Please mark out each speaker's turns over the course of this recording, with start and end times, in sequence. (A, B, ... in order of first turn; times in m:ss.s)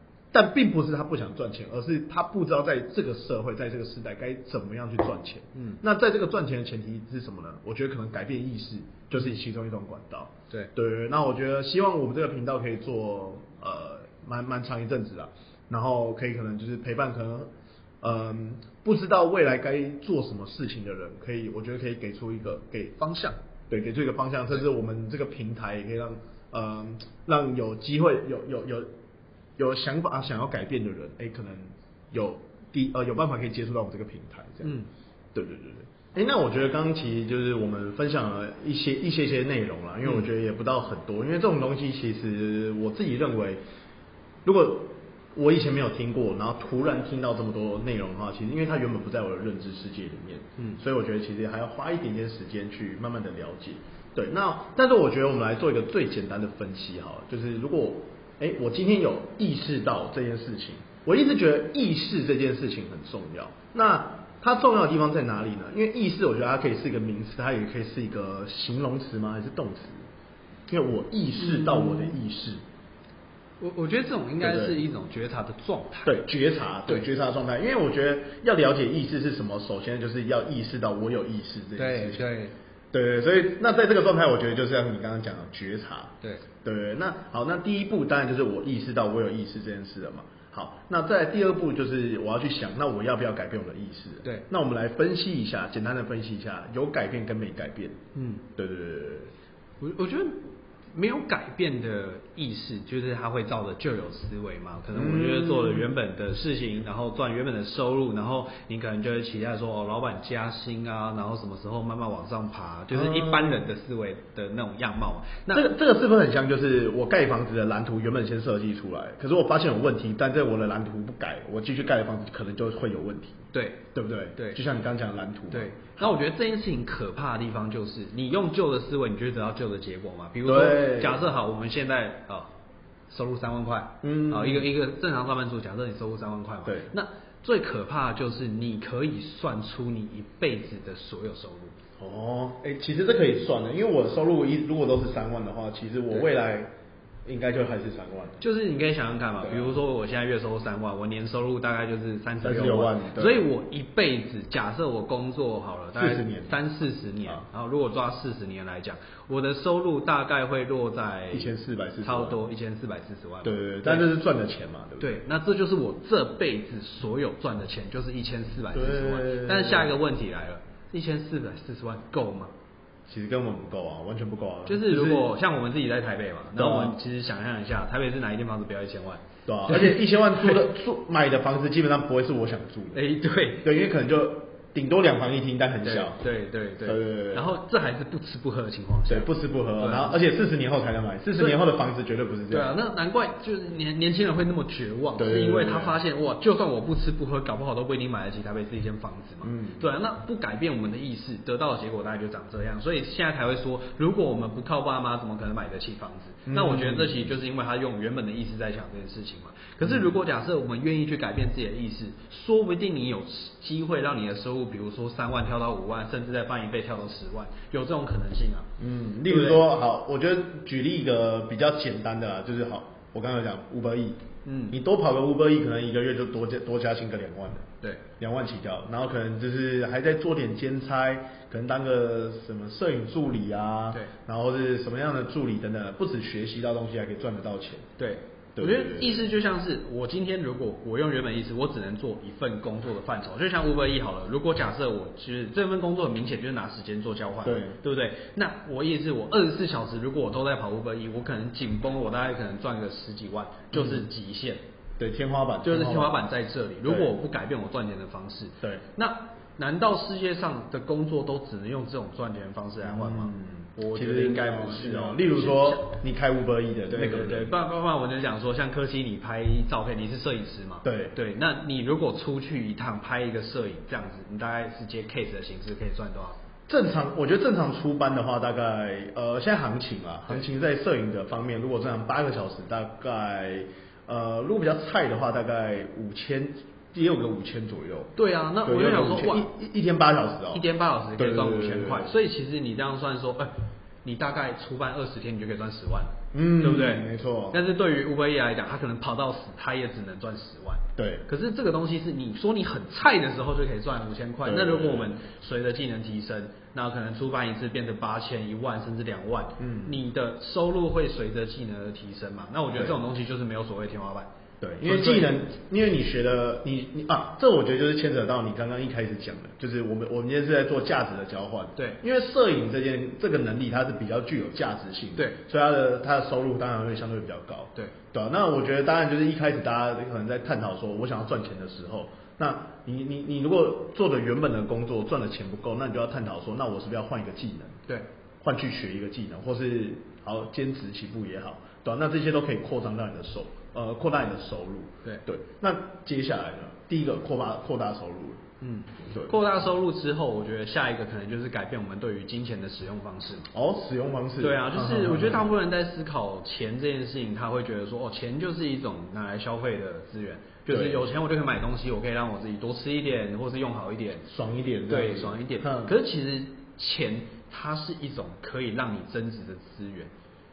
0:00.3-0:17.5 A
0:05.5-0:05.8 B
0:18.0-0:23.0 A
0:23.0-0:23.4 B
0:23.7-0:28.9 A
0:29.6-0:34.8 A
0:34.6-0:34.9 B
0:35.3-0:43.6 A
0:44.4-1:10.0 A
1:10.7-1:12.6 A
1:11.4-1:12.2 B
1:13.6-1:16.2 B
1:14.4-1:14.8 A
1:16.0-1:22.2 A
1:21.8-1:22.5 B
1:22.9-1:38.0 A
1:38.1-1:38.4 B
1:38.5-1:39.3 A
1:39.8-1:55.7 B
1:44.9-1:45.9 A
1:52.9-1:53.6 A
1:55.5-2:06.2 A
2:03.5-2:04.6 B
2:05.5-2:12.5 B
2:10.4-2:11.2 A
2:13.1-2:21.8 B
2:14.0-2:14.7 A
2:22.0-2:26.7 A
2:27.2-2:28.4 A
2:28.4-2:41.5 B
2:29.4-2:29.7 A
2:32.4-2:33.4 A
2:35.9-2:36.6 A
2:41.3-2:42.4 A
2:42.0-2:44.1 B
2:43.4-2:45.2 A
2:45.0-2:52.5 B
2:48.7-2:49.9 A
2:53.1-2:55.3 A
2:54.6-3:00.6 B
2:56.5-2:57.0 A
2:59.5-3:03.0 A
3:02.9-3:03.7 B
3:03.6-3:06.2 A
3:05.8-3:10.1 B
3:06.8-3:07.6 A
3:09.1-3:12.7 A
3:12.5-3:38.7 B
3:15.2-3:16.0 A
3:19.4-3:19.9 A
3:26.4-3:27.3 A
3:29.8-3:30.2 A
3:38.8-3:57.9 A
3:39.2-3:39.6 B
3:44.4-3:44.8 B
3:58.0-4:14.6 B
3:58.6-3:59.3 A
4:07.4-4:07.8 A
4:13.7-4:14.1 A
4:15.0-4:16.2 A
4:15.6-4:25.9 B
4:16.8-4:17.1 A
4:22.8-4:27.5 A
4:26.9-4:36.4 B
4:30.8-4:31.1 A
4:36.7-4:48.1 A
4:48.2-4:49.4 B
4:48.6-4:50.6 A
4:50.5-4:53.5 B
4:51.2-4:52.1 A
4:54.0-5:14.3 B
4:56.3-4:57.6 A
5:01.0-5:01.2 A
5:04.4-5:05.2 A
5:09.6-5:10.0 A
5:14.6-5:37.8 A
5:14.8-5:15.3 B
5:38.4-5:48.4 A
5:48.6-5:53.5 B
5:49.0-5:49.3 A
5:53.5-5:55.4 A
5:54.4-6:04.3 B
6:00.7-6:01.1 A
6:04.3-6:05.9 A
6:04.9-6:10.1 B